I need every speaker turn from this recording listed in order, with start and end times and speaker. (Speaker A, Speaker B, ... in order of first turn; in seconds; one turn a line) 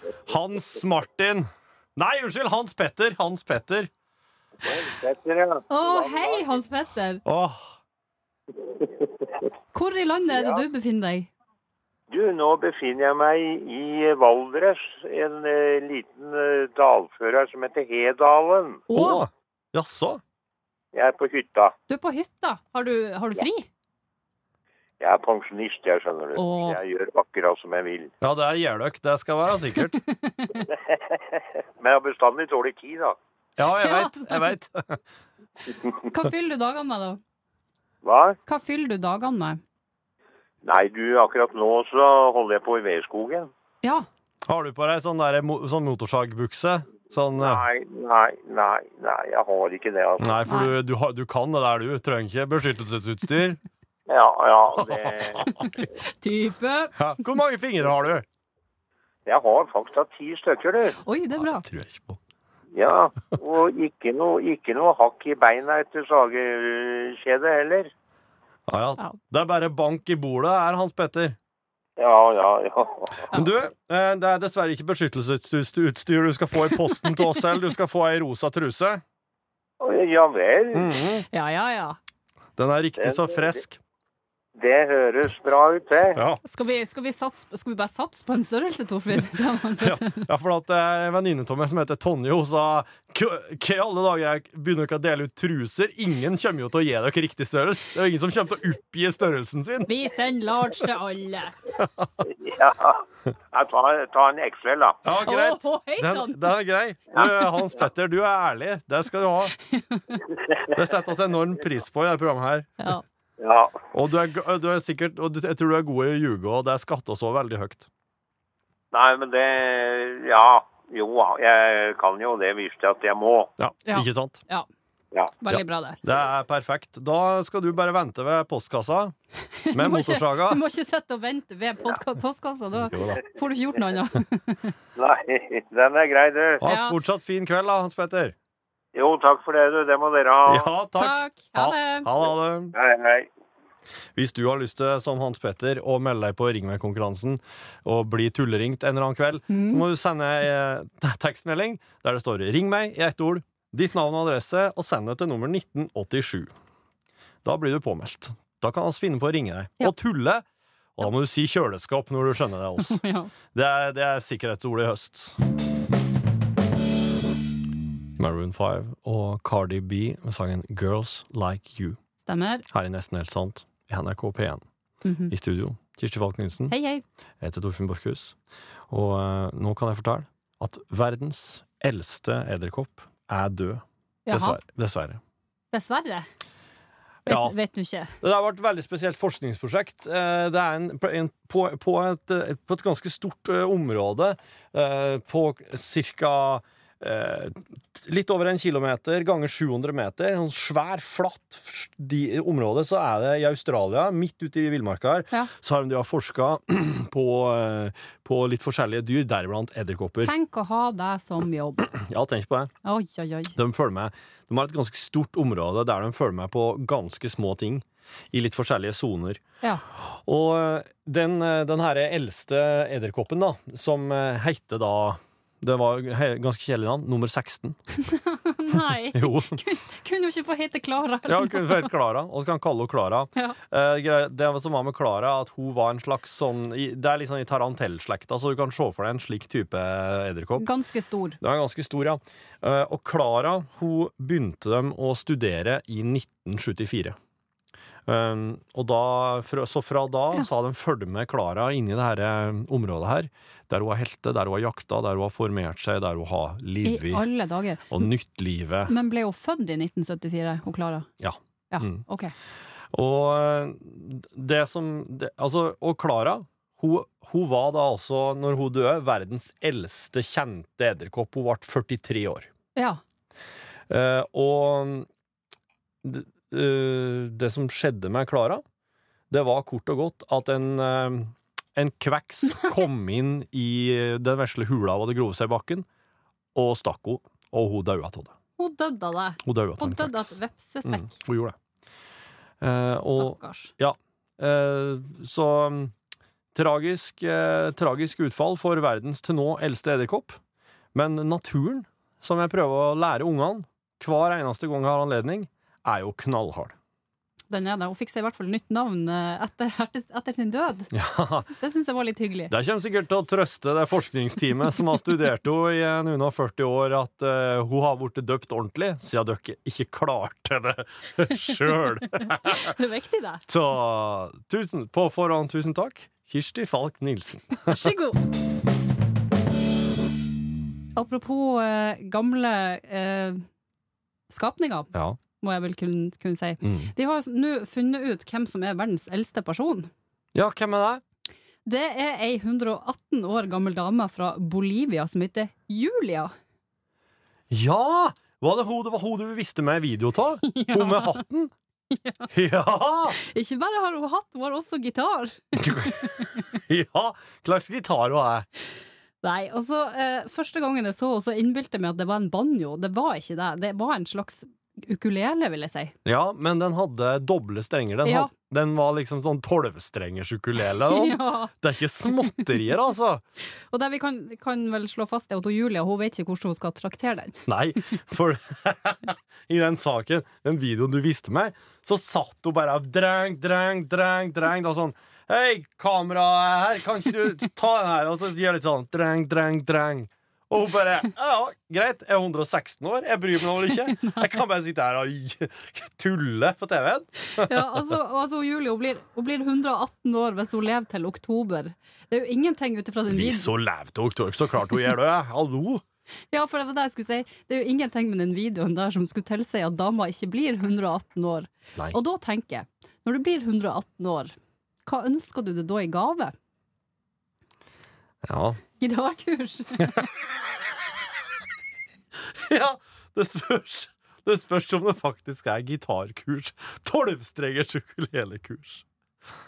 Speaker A: 0.2-3.9
Speaker B: 4.6-6.6
Speaker C: 5.7-7.2
Speaker A: 7.2-7.7
Speaker B: 8.7-9.4
Speaker C: 9.7-11.3
Speaker B: 10.3-10.6
Speaker B: 12.1-18.8
Speaker C: 18.9-19.2
Speaker A: 18.9-20.2
Speaker B: 20.9-21.7
Speaker C: 21.9-23.6
Speaker B: 25.0-28.1
Speaker C: 26.4-26.8
Speaker A: 28.2-30.0
Speaker C: 29.8-30.7
Speaker B: 30.9-33.1
Speaker A: 33.6-35.0
Speaker C: 33.8-34.5
Speaker C: 36.0-37.2
Speaker B: 38.0-38.4
Speaker C: 38.5-39.6
Speaker B: 40.6-43.5
Speaker A: 44.5-47.6
Speaker B: 47.4-50.4
Speaker A: 50.2-53.6
Speaker B: 54.1-55.5
Speaker A: 54.8-55.6
Speaker C: 55.5-56.9
Speaker A: 56.9-58.2
Speaker B: 59.2-61.0
Speaker C: 61.0-61.6
Speaker A: 61.4-62.2
Speaker B: 62.7-67.9
Speaker A: 68.7-71.4
Speaker B: 72.0-73.2
Speaker A: 73.3-79.0
Speaker B: 79.8-80.9
Speaker A: 80.7-81.3
Speaker C: 81.3-82.0
Speaker A: 82.6-83.8
Speaker B: 83.0-83.5
Speaker B: 84.5-86.2
Speaker A: 86.1-86.4
Speaker C: 86.5-90.2
Speaker A: 89.2-99.9
Speaker C: 99.9-101.5
Speaker A: 101.8-102.3
Speaker B: 102.3-105.0
Speaker A: 105.0-109.5
Speaker C: 105.2-106.5
Speaker A: 110.7-112.9
Speaker B: 113.4-113.8
Speaker A: 113.9-117.9
Speaker B: 118.9-123.5
Speaker A: 123.6-124.4
Speaker C: 123.9-124.7
Speaker C: 125.4-126.0
Speaker A: 125.5-129.1
Speaker C: 129.7-134.7
Speaker A: 129.7-130.6
Speaker A: 132.8-133.2
Speaker B: 134.9-136.6
Speaker A: 136.6-138.3
Speaker C: 136.7-137.0
Speaker B: 138.9-140.7
Speaker A: 140.4-142.7
Speaker C: 141.0-142.1
Speaker B: 142.7-143.3
Speaker A: 144.2-156.5
Speaker C: 149.5-149.8
Speaker A: 157.4-160.4
Speaker A: 161.0-165.4
Speaker C: 162.8-163.3
Speaker A: 168.2-172.0
Speaker C: 172.3-172.6
Speaker A: 172.7-174.6
Speaker C: 175.0-175.3
Speaker A: 175.3-176.7
Speaker C: 176.7-177.0
Speaker A: 177.4-178.3
Speaker A: 178.9-185.2
Speaker C: 184.3-184.6
Speaker C: 185.7-186.2
Speaker A: 187.2-187.6
Speaker C: 187.3-188.1
Speaker A: 188.2-210.3
Speaker C: 210.2-211.8
Speaker A: 211.8-212.7
Speaker C: 212.8-213.5
Speaker A: 213.5-219.4
Speaker A: 219.9-227.8
Speaker C: 228.2-231.9
Speaker A: 228.7-229.6
Speaker A: 231.2-240.7
Speaker C: 240.6-241.4
Speaker A: 241.4-247.2
Speaker A: 248.1-257.3
Speaker C: 256.8-258.0
Speaker A: 257.9-258.9
Speaker C: 258.9-261.1
Speaker A: 261.2-262.0
Speaker C: 261.7-262.3
Speaker A: 262.9-272.5
Speaker A: 273.9-275.1
Speaker A: 276.0-278.6
Speaker A: 279.3-285.9
Speaker A: 286.5-288.4
Speaker C: 288.6-291.1
Speaker A: 289.4-291.6
Speaker A: 292.6-295.9
Speaker C: 293.1-293.7
Speaker A: 296.5-300.4
Speaker A: 300.9-306.8
Speaker C: 307.5-310.9
Speaker A: 310.9-311.5
Speaker C: 311.4-312.5
Speaker A: 312.5-322.7
Speaker C: 322.1-323.4
Speaker A: 323.5-327.9
Speaker C: 327.6-328.2
Speaker C: 330.9-333.4
Speaker C: 334.3-334.9
Speaker A: 334.9-335.2
Speaker C: 335.4-339.9
Speaker A: 336.6-336.9
Speaker A: 340.3-341.0
Speaker C: 341.6-346.3
Speaker A: 347.5-351.5
Speaker C: 350.4-351.2
Speaker C: 351.9-352.3
Speaker A: 352.3-353.2
Speaker C: 353.1-356.3
Speaker A: 355.6-358.5
Speaker C: 359.2-365.9
Speaker A: 366.0-373.2
Speaker C: 368.0-368.3
Speaker C: 370.8-371.5
Speaker C: 373.7-377.4
Speaker A: 377.4-397.9
Speaker C: 393.7-394.3
Speaker C: 397.4-403.5
Speaker A: 403.1-405.8
Speaker C: 406.3-414.3
Speaker C: 414.9-416.3
Speaker A: 418.2-418.6
Speaker C: 418.8-420.0
Speaker A: 422.1-428.9